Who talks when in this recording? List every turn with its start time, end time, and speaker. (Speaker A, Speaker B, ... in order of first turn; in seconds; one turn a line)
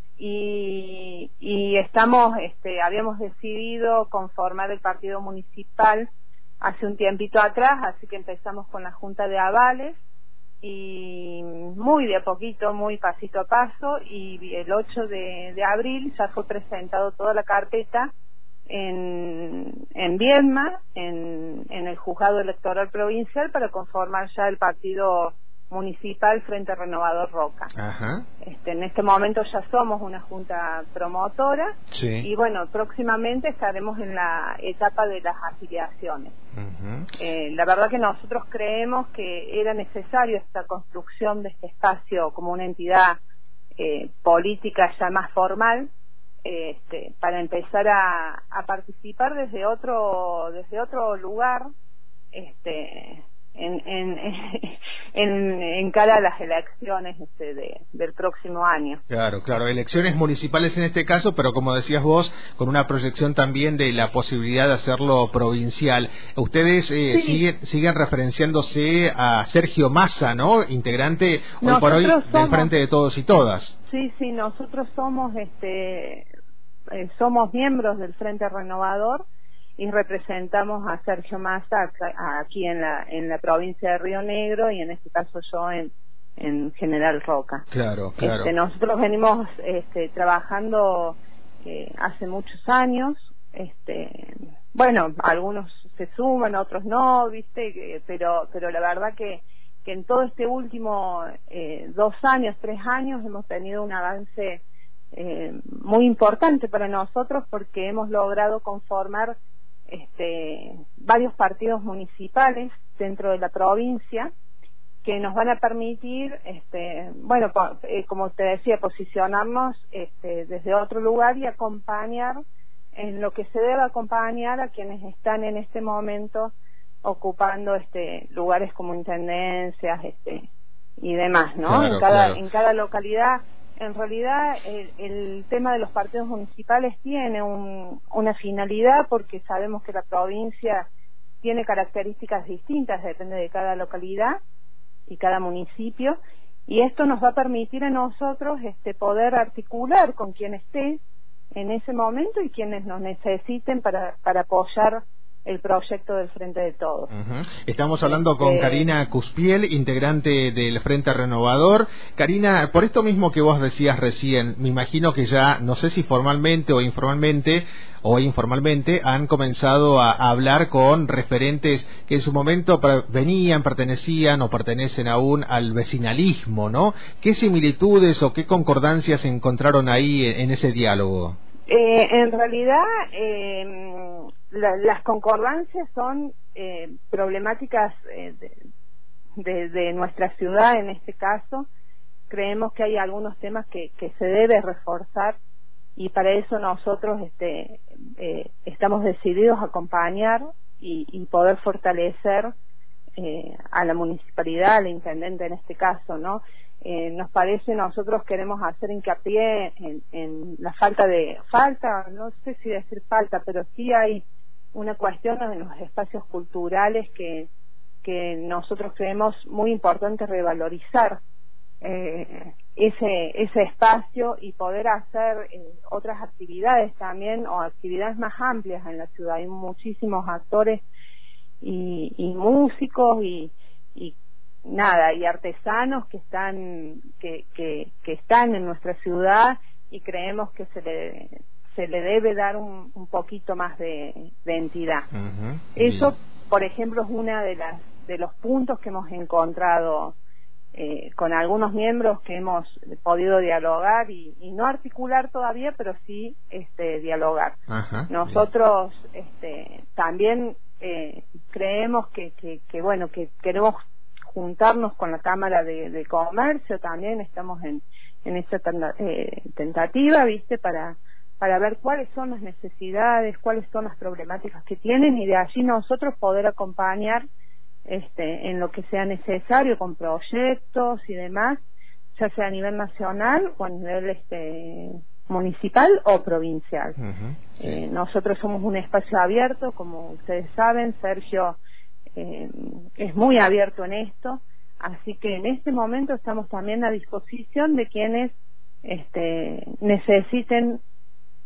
Speaker A: 0.2-6.1
Speaker A: 6.6-10.0
Speaker A: 10.6-18.1
Speaker A: 18.7-27.7
Speaker B: 27.7-28.2
Speaker A: 28.4-36.3
Speaker B: 31.9-32.2
Speaker B: 36.5-37.1
Speaker A: 37.1-43.2
Speaker A: 43.8-45.9
Speaker A: 46.4-51.7
Speaker A: 52.3-59.0
Speaker B: 59.1-73.7
Speaker A: 67.1-67.4
Speaker A: 71.6-72.7
Speaker A: 73.9-76.3
Speaker A: 76.9-79.2
Speaker A: 79.8-87.6
Speaker B: 87.7-88.5
Speaker A: 88.2-109.3
Speaker A: 109.9-114.3
Speaker A: 115.0-122.4
Speaker A: 122.9-130.5
Speaker A: 131.0-140.8
Speaker B: 131.7-132.4
Speaker A: 141.4-144.4
Speaker A: 145.1-151.0
Speaker A: 151.5-157.1
Speaker B: 157.1-181.3
Speaker A: 158.0-158.9
Speaker A: 181.7-188.6
Speaker A: 189.4-191.7
Speaker A: 192.3-195.3
Speaker A: 195.9-202.5
Speaker A: 203.2-214.2
Speaker A: 214.7-217.5
Speaker A: 218.0-221.2
Speaker A: 221.8-230.8
Speaker A: 231.6-245.1
Speaker B: 245.1-246.1
Speaker A: 245.7-250.2
Speaker A: 250.7-257.6
Speaker B: 257.7-258.4
Speaker A: 258.1-263.8
Speaker A: 264.3-277.2
Speaker A: 277.8-281.6
Speaker A: 282.1-287.0
Speaker B: 287.0-287.8
Speaker A: 287.6-291.6
Speaker A: 292.1-300.8